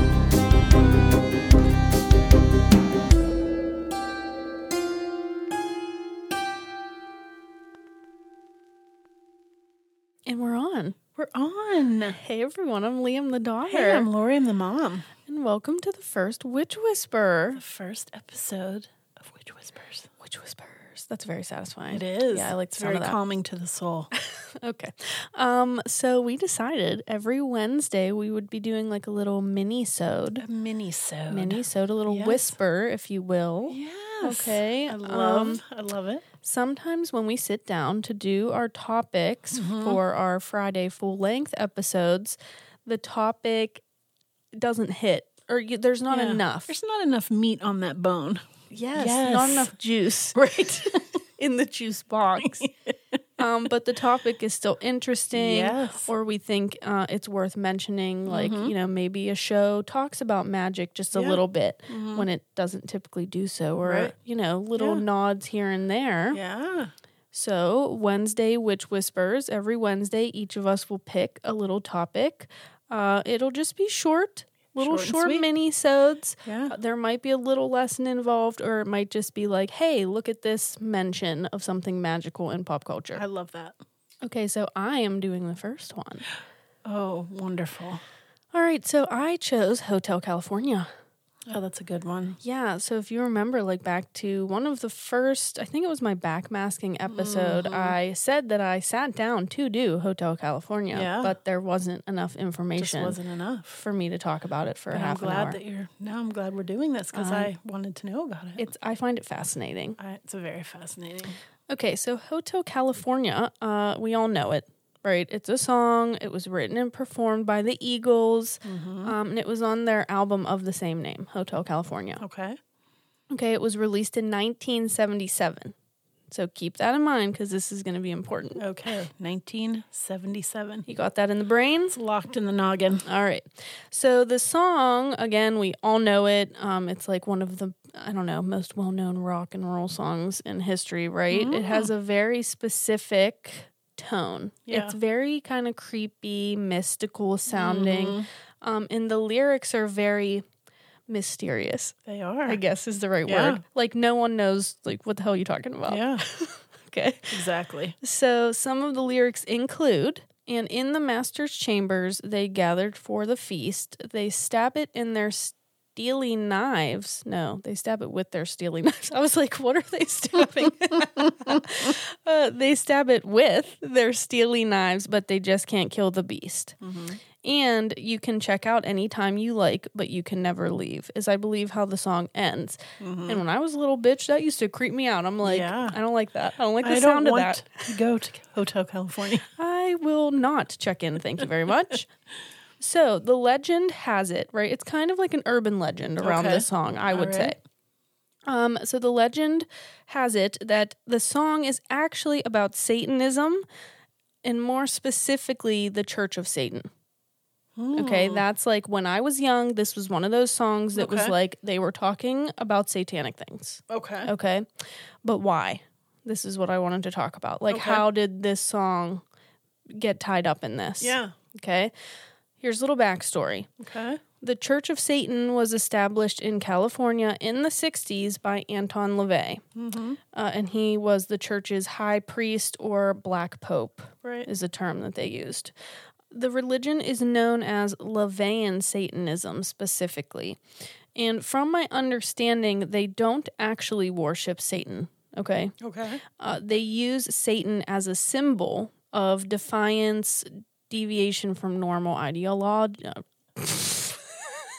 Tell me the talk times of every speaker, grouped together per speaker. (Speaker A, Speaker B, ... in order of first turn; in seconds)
Speaker A: 10.2-11.0, 12.1-14.1, 15.2-17.6, 20.2-23.2, 24.1-30.4, 31.3-35.6, 36.4-43.8, 44.6-46.7, 48.7-50.4, 51.4-52.7, 53.4-66.4, 67.3-83.2, 84.2-86.3, 88.5-90.9, 92.4-103.2, 103.7-105.6, 107.1-107.5, 108.6-110.0, 111.7-122.2, 123.3-125.7, 126.3-128.6, 130.9-131.9, 133.0-150.4, 151.1-151.9, 152.5-157.3, 158.0-176.8, 177.4-187.9, 189.5-192.1, 192.8-197.6, 198.5-203.6, 204.4-206.9, 207.9-214.7, 215.2-219.2, 220.0-221.9, 222.6-223.7, 224.4-229.6, 230.3-235.7, 236.3-240.6, 241.1-245.7, 246.3-254.6
Speaker B: 11.2-12.2, 13.7-15.1, 17.5-20.1, 21.9-24.1, 30.4-32.5, 33.7-36.2, 39.5-40.0, 46.1-48.4, 49.0-49.7, 50.3-51.2, 52.4-53.2, 55.3-56.1, 58.3-58.7, 61.1-62.3, 63.8-64.1, 64.8-65.0, 66.3-66.9, 74.8-75.5, 76.4-76.7, 83.1-83.8, 86.8-88.0, 91.5-92.4, 97.0-98.0, 100.9-101.3, 102.8-103.7, 104.9-108.7, 110.0-111.3, 118.6-119.1, 122.2-122.6, 128.6-130.8, 131.9-133.0, 141.3-141.9, 144.7-144.9, 147.5-148.3, 152.1-152.6, 153.2-153.6, 155.9-156.2, 157.3-157.9, 176.8-177.2, 183.0-183.4, 185.4-186.0, 186.8-189.4, 196.2-197.5, 207.8-208.4, 210.9-211.3, 213.9-214.3, 217.7-218.0, 221.0-221.3, 223.8-224.2, 229.8-230.2, 245.8-246.2